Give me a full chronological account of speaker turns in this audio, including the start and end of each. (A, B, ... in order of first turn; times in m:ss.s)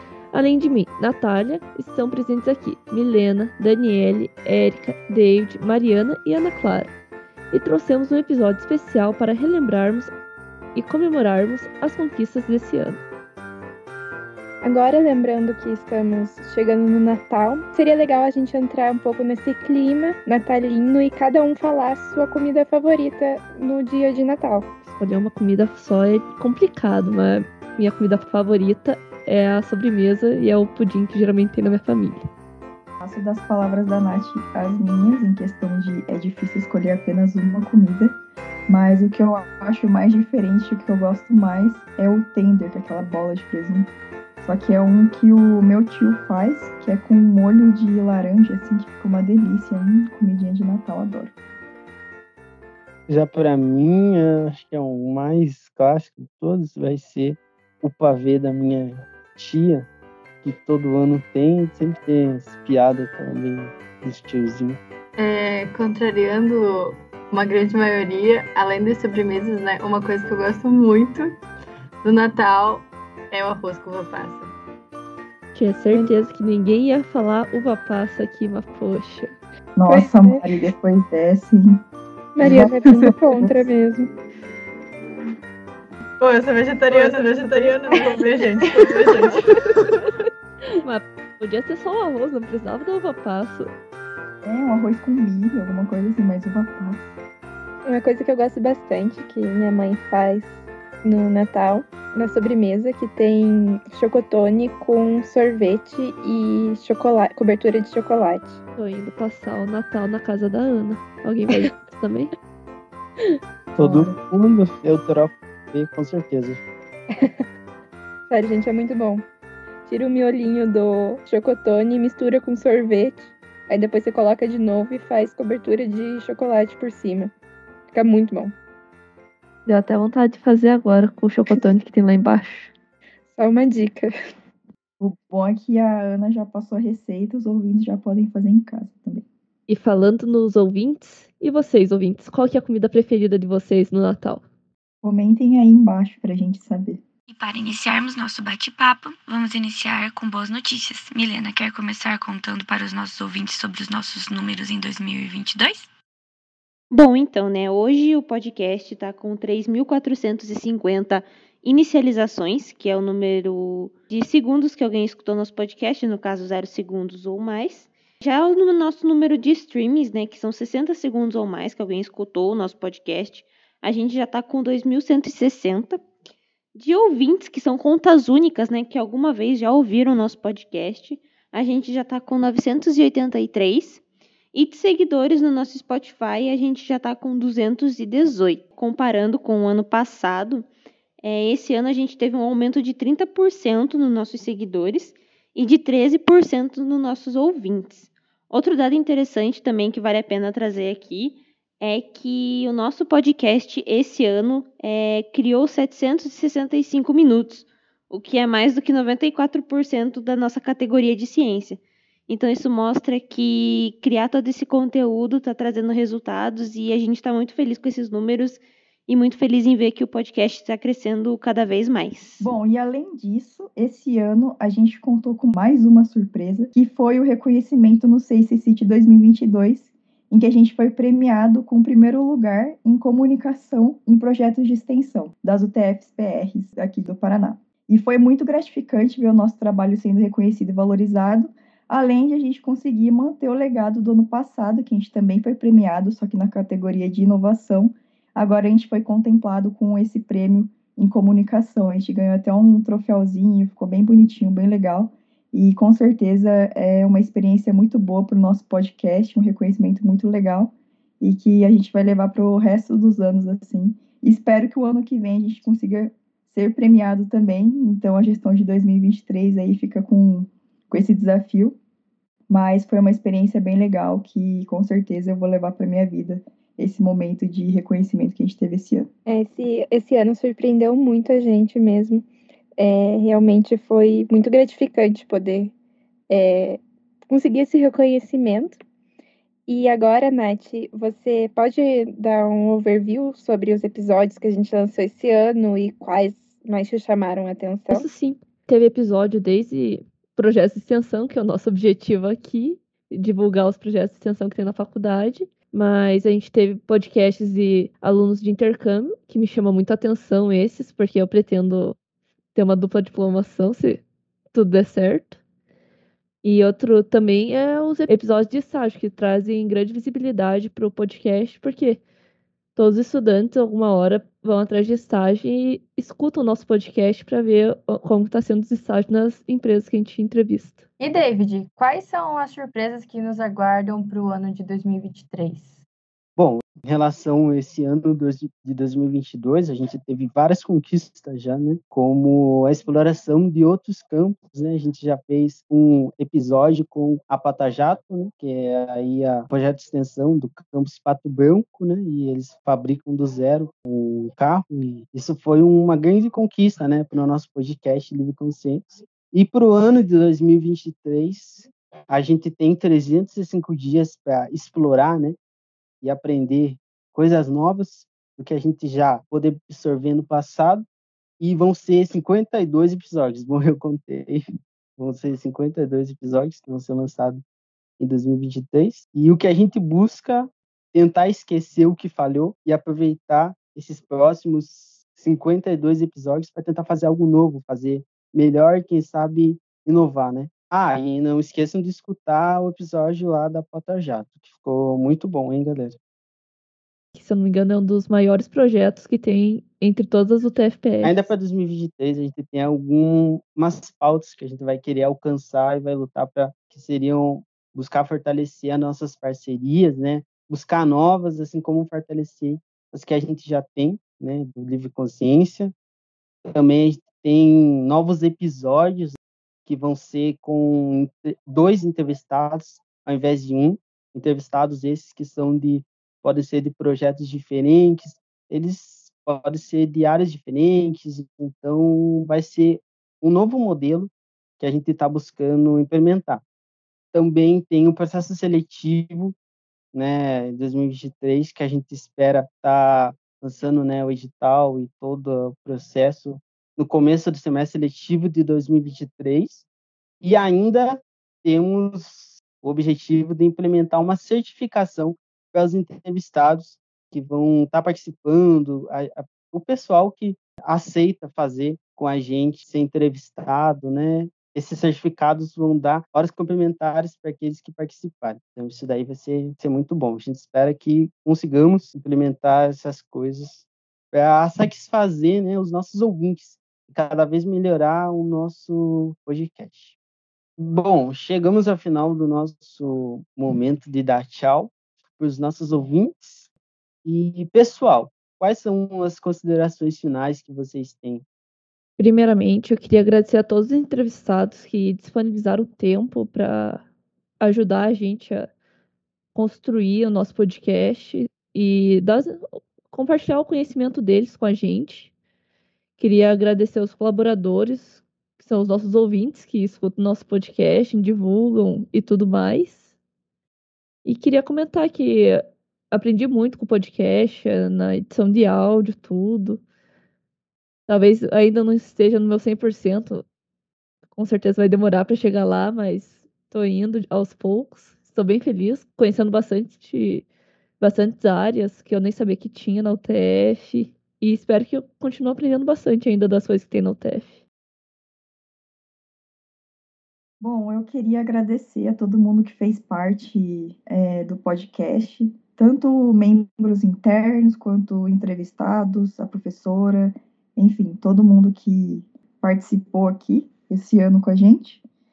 0:00.3-0:06.9 A
0:07.5-0:10.1 A
0:10.7-0:13.0 A
0:14.6-0:24.7 B
0:24.9-0:32.3 A
0:33.0-0:38.2 C
0:38.7-0:51.3 C
0:53.1-0:59.9 D
1:00.4-1:04.8 D
1:05.2-1:11.4 E
1:12.0-1:14.5 E
1:15.5-1:19.3 A
1:19.8-1:21.8 C
1:19.9-1:20.5 B
1:22.4-1:24.1 B
1:22.4-1:23.6 C
1:26.2-1:29.5 E
1:27.0-1:28.2 B
1:28.8-1:29.3 B
1:30.8-1:33.7 A
1:34.4-1:37.1 C
1:37.8-1:48.6 B
1:48.8-1:52.3 A
1:53.8-1:56.6 D
1:53.8-1:54.1 A
1:57.1-1:57.4 B
1:58.3-1:59.2 B
1:59.8-2:07.3 B
2:07.9-2:08.5 B
2:09.6-2:12.7 A
2:13.3-2:14.1 B
2:15.0-2:19.2 C
2:19.7-2:24.4 A
2:25.0-2:27.0 C
2:27.3-2:35.9 F
2:36.9-2:56.0 G
2:56.7-3:04.0 G
3:04.5-3:10.7 G
3:11.2-3:42.5 G
3:42.4-4:31.8 C
4:32.5-4:39.1 C
4:39.2-4:42.2 B
4:42.8-4:45.7 B
4:46.3-4:48.8 B
4:49.7-4:58.0 B
4:57.9-5:12.0 A
5:12.5-5:14.0 A
5:14.5-5:15.4 A
5:16.4-5:22.0 A
5:22.7-5:30.8 A
5:31.0-5:35.8 E
5:36.4-6:05.4 D
6:06.0-6:10.8 D
6:11.4-6:14.4 D
6:15.0-6:17.4 D
6:18.0-6:36.0 D
6:37.1-6:41.3 A
6:41.0-6:55.7 D
6:56.5-7:16.4 D
7:17.1-7:19.4 D
7:19.9-7:29.6 D
7:30.2-8:00.0 D
8:00.6-8:06.5 D
8:07.0-8:11.2 D
8:12.0-8:16.8 A
8:17.4-8:18.5 A
8:19.3-8:25.1 A
8:26.0-8:32.8 A
8:34.0-8:39.6 A
8:40.9-8:43.2 A
8:44.1-8:50.3 A
8:50.8-8:57.4 A
9:00.4-9:14.8 C